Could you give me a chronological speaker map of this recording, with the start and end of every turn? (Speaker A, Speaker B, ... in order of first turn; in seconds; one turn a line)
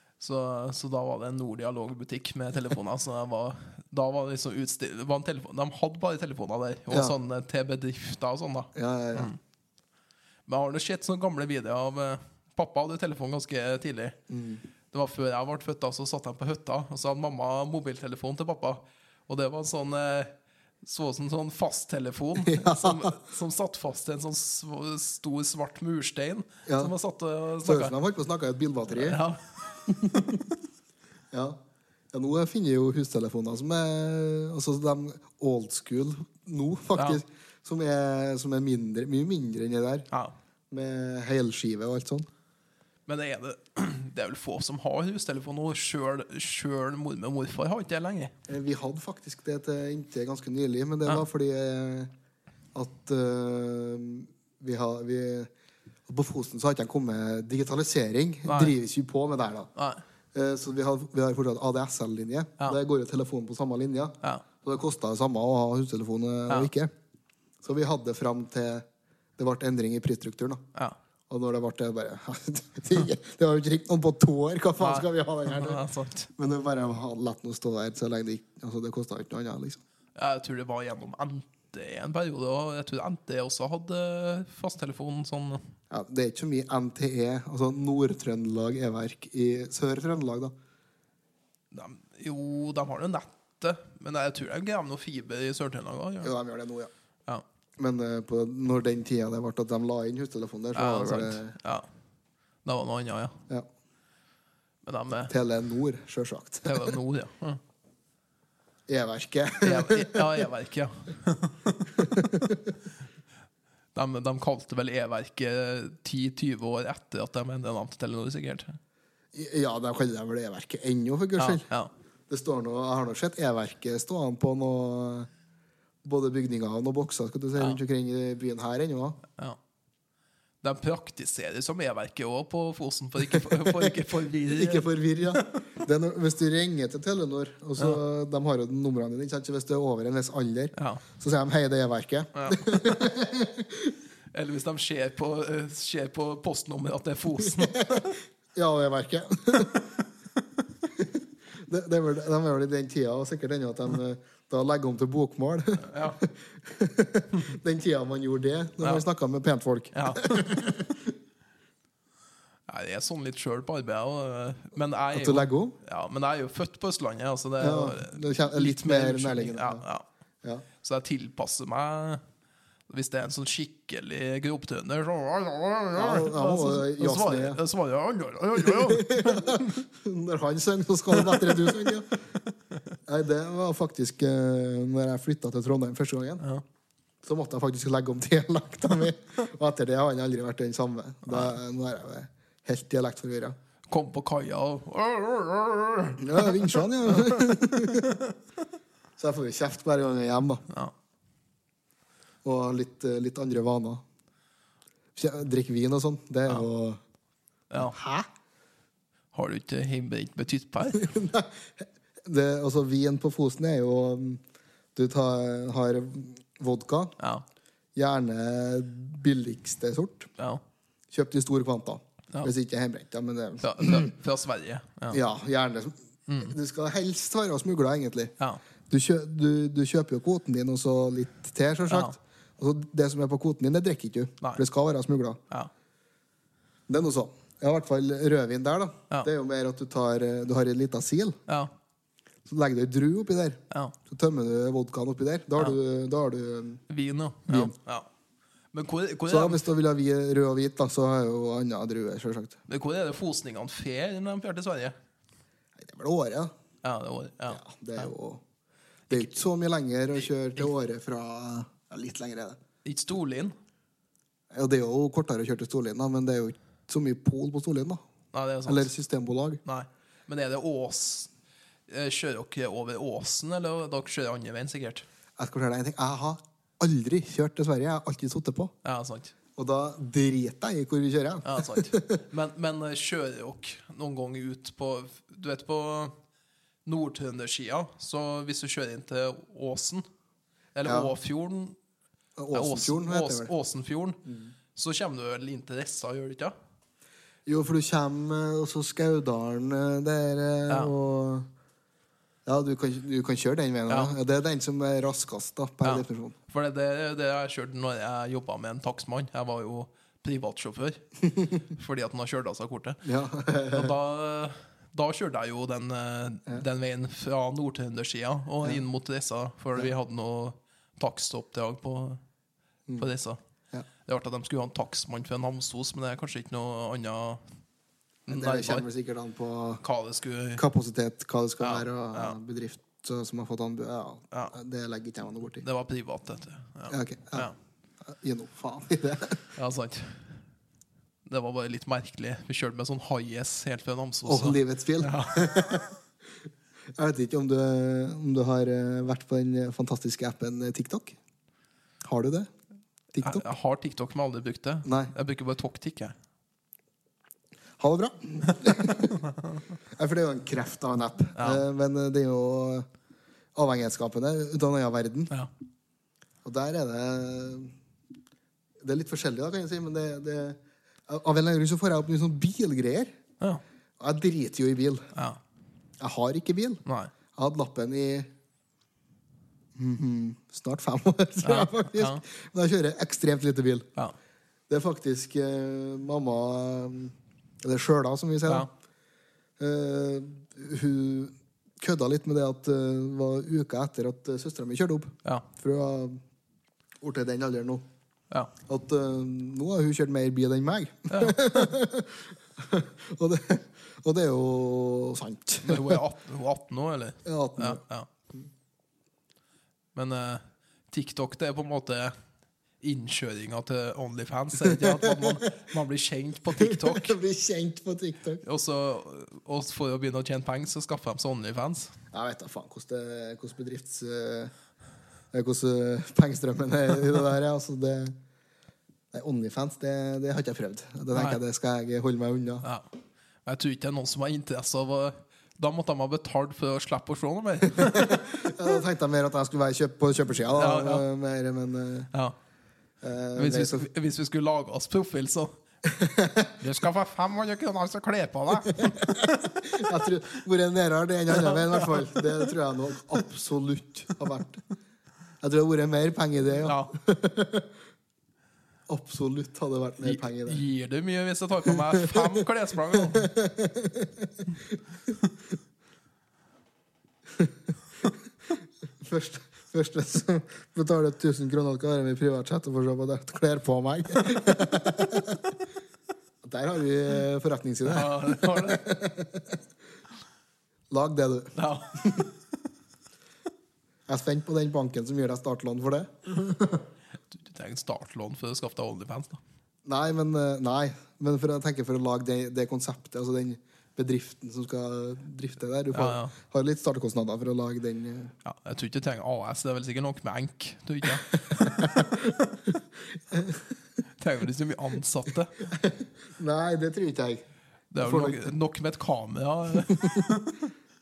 Speaker A: 0.2-9.4
Speaker B: 6.9-7.2
Speaker B: 8.8-9.3
Speaker A: 10.5-14.2
Speaker B: 14.3-14.6
Speaker A: 14.9-27.9
Speaker B: 22.4-23.2
Speaker B: 26.7-26.9
Speaker B: 27.6-29.2
Speaker A: 28.9-30.5
Speaker B: 31.3-31.6
Speaker B: 32.1-40.1
Speaker A: 37.0-37.2
Speaker B: 40.7-42.3
Speaker A: 43.1-48.3
Speaker B: 48.5-52.1
Speaker B: 52.7-55.5
Speaker B: 56.1-59.7
Speaker A: 58.5-58.7
Speaker A: 59.8-60.0
Speaker B: 60.3-66.9
Speaker B: 67.6-68.8
Speaker B: 69.4-70.6
Speaker B: 71.3-75.8
Speaker A: 74.8-76.3
Speaker B: 76.4-79.8
Speaker A: 80.2-85.7
Speaker B: 85.9-90.5
Speaker A: 91.7-96.3
Speaker B: 96.2-96.9
Speaker B: 97.8-101.5
Speaker A: 100.8-101.9
Speaker A: 102.7-103.4
Speaker A: 104.8-105.3
Speaker B: 105.3-106.9
Speaker A: 106.7-107.6
Speaker B: 108.9-110.5
Speaker A: 109.6-112.1
Speaker B: 112.0-112.7
Speaker A: 114.0-118.8
Speaker B: 119.3-121.7
Speaker A: 121.4-121.9
Speaker B: 122.3-125.3
Speaker B: 126.0-129.2
Speaker A: 130.6-135.6
Speaker B: 133.3-143.9
Speaker A: 140.8-141.1
Speaker A: 142.3-142.9
Speaker A: 144.3-148.2
Speaker B: 147.4-149.9
Speaker B: 150.9-161.1
Speaker A: 155.8-156.2
Speaker A: 159.9-160.6
Speaker A: 162.7-170.1
Speaker B: 165.1-165.8
Speaker B: 167.6-169.8
Speaker A: 170.8-172.2
Speaker A: 172.9-179.8
Speaker B: 175.9-177.6
Speaker B: 178.6-182.1
Speaker A: 181.1-181.8
Speaker B: 183.1-186.4
Speaker B: 187.2-193.6
Speaker A: 191.3-191.6
Speaker A: 193.9-198.3
Speaker B: 196.2-198.1
Speaker B: 199.2-200.6
Speaker B: 202.4-204.0
Speaker B: 205.2-207.0
Speaker A: 207.7-208.0
Speaker B: 207.8-208.3
Speaker A: 209.3-211.1
Speaker B: 210.9-214.4
Speaker B: 214.9-217.1
Speaker A: 217.2-217.4
Speaker B: 217.9-220.3
Speaker B: 221.1-224.1
Speaker A: 223.6-225.2
Speaker B: 225.1-228.3
Speaker A: 226.3-226.5
Speaker B: 228.9-235.4
Speaker A: 231.9-232.2
Speaker B: 236.9-241.4
Speaker A: 241.5-241.7
Speaker B: 242.5-246.8
Speaker A: 246.9-248.1
Speaker B: 247.5-247.7
Speaker A: 248.7-249.7
Speaker B: 249.3-252.6
Speaker A: 252.7-254.9
Speaker B: 255.8-256.5
Speaker A: 256.8-258.1
Speaker B: 257.5-258.4
Speaker A: 259.1-259.4
Speaker B: 259.1-262.6
Speaker A: 260.2-260.7
Speaker A: 262.8-263.6
Speaker B: 264.5-268.0
Speaker A: 268.3-268.9
Speaker B: 268.7-269.6
Speaker A: 269.6-271.3
Speaker A: 271.9-275.1
Speaker B: 275.4-278.7
Speaker A: 278.8-279.3
Speaker B: 279.6-282.2
Speaker A: 281.4-286.1
Speaker A: 286.9-290.1
Speaker A: 290.8-291.8
Speaker B: 290.9-291.1
Speaker B: 292.4-293.5
Speaker A: 292.5-294.2
Speaker B: 294.3-294.5
Speaker A: 294.8-296.5
Speaker B: 297.5-301.5
Speaker B: 302.5-306.4
Speaker A: 303.9-304.1
Speaker A: 305.8-311.1
Speaker A: 311.6-313.0
Speaker B: 313.0-313.9
Speaker A: 313.7-322.2
Speaker A: 323.0-323.4
Speaker A: 324.1-327.4
Speaker A: 328.3-328.9
Speaker B: 328.3-329.8
Speaker A: 329.8-330.6
Speaker B: 330.6-335.6
Speaker A: 331.6-332.4
Speaker A: 335.6-337.6
Speaker B: 336.9-337.5
Speaker B: 338.0-339.4
Speaker A: 339.6-340.3
Speaker A: 341.3-345.5
Speaker B: 344.3-346.0
Speaker B: 347.0-351.2
Speaker B: 352.0-352.5
Speaker B: 353.1-353.5
Speaker A: 353.2-356.1
Speaker B: 354.9-355.1
Speaker B: 357.8-359.2
Speaker A: 359.2-359.6
Speaker B: 359.9-362.9
Speaker A: 361.4-361.6
Speaker B: 363.6-365.3
Speaker B: 366.4-367.7
Speaker B: 368.8-373.1
Speaker B: 374.0-375.1
Speaker A: 375.1-375.4
Speaker B: 376.0-376.8
Speaker A: 376.9-377.1
Speaker B: 377.4-378.3
Speaker B: 379.8-383.9
Speaker A: 381.4-382.2
Speaker B: 384.7-388.7
Speaker B: 389.6-396.2
Speaker B: 397.0-397.8
Speaker B: 398.7-406.0
Speaker A: 401.1-401.7
Speaker A: 405.6-408.1
Speaker B: 407.2-407.8
Speaker A: 409.9-412.1
Speaker A: 412.8-417.2
Speaker B: 414.6-415.4
Speaker B: 416.6-418.4
Speaker A: 418.4-421.9
Speaker B: 422.1-424.5
Speaker B: 425.3-428.1
Speaker B: 429.1-432.6
Speaker A: 431.1-431.4
Speaker A: 433.5-438.3
Speaker B: 437.7-442.1
Speaker A: 440.6-441.1
Speaker B: 443.0-443.9
Speaker A: 443.4-445.5
Speaker B: 445.9-446.5
Speaker A: 446.6-449.5
Speaker B: 448.7-454.6
Speaker A: 451.4-452.1
Speaker B: 455.4-457.7
Speaker A: 456.6-456.9
Speaker B: 458.9-460.6
Speaker A: 460.0-463.3
Speaker B: 461.7-465.1
Speaker B: 469.0-475.5
Speaker B: 476.4-479.6
Speaker A: 477.9-478.8
Speaker B: 480.9-482.3
Speaker A: 481.6-482.3
Speaker B: 484.1-486.9
Speaker A: 487.3-489.4
Speaker B: 489.9-498.3
Speaker A: 495.9-496.3
Speaker A: 498.4-502.3
Speaker B: 501.5-503.6
Speaker A: 504.2-505.7
Speaker B: 505.7-507.4
Speaker A: 507.9-510.7
Speaker B: 508.0-508.5
Speaker B: 509.8-510.2